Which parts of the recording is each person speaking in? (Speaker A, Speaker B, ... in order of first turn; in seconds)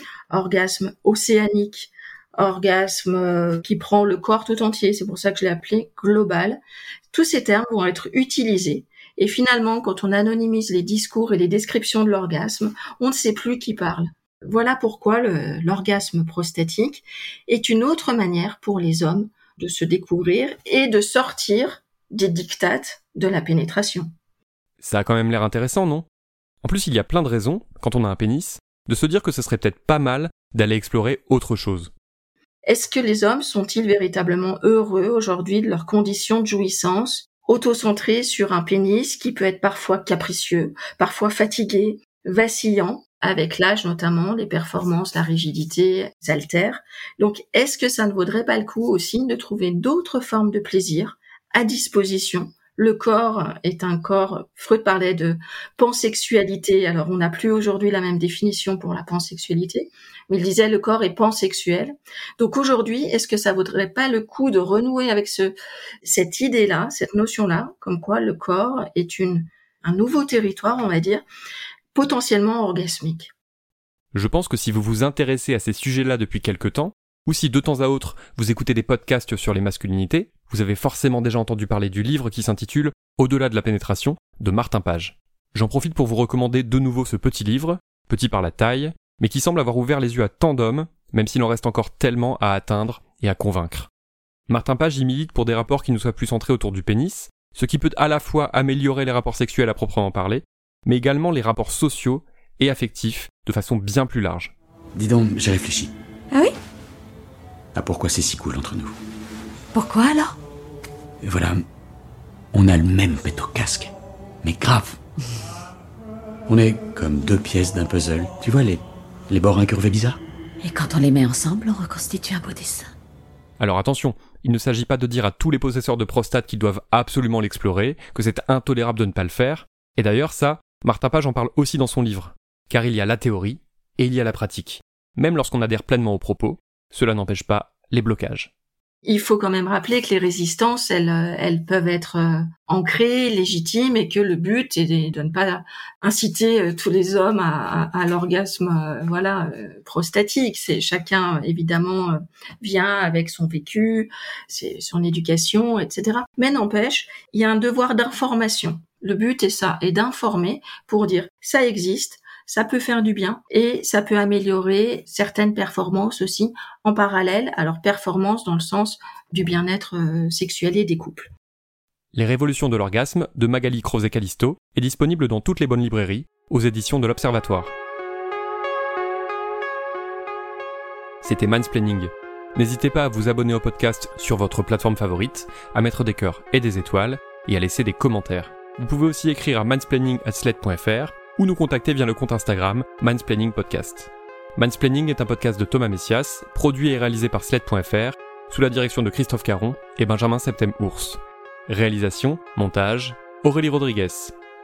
Speaker A: 0.3-6.6, 7.1-24.1, 32.6-71.2, 71.9-73.3, 139.0-171.3
Speaker B: 24.8-26.1, 26.6-31.9, 74.1-93.9, 94.5-104.5, 123.6-138.5, 172.1-177.7, 181.2-204.3
Speaker C: 104.9-105.9, 107.7-109.0, 111.2-111.6, 112.5-115.0, 116.5-120.2
Speaker D: 120.6-122.9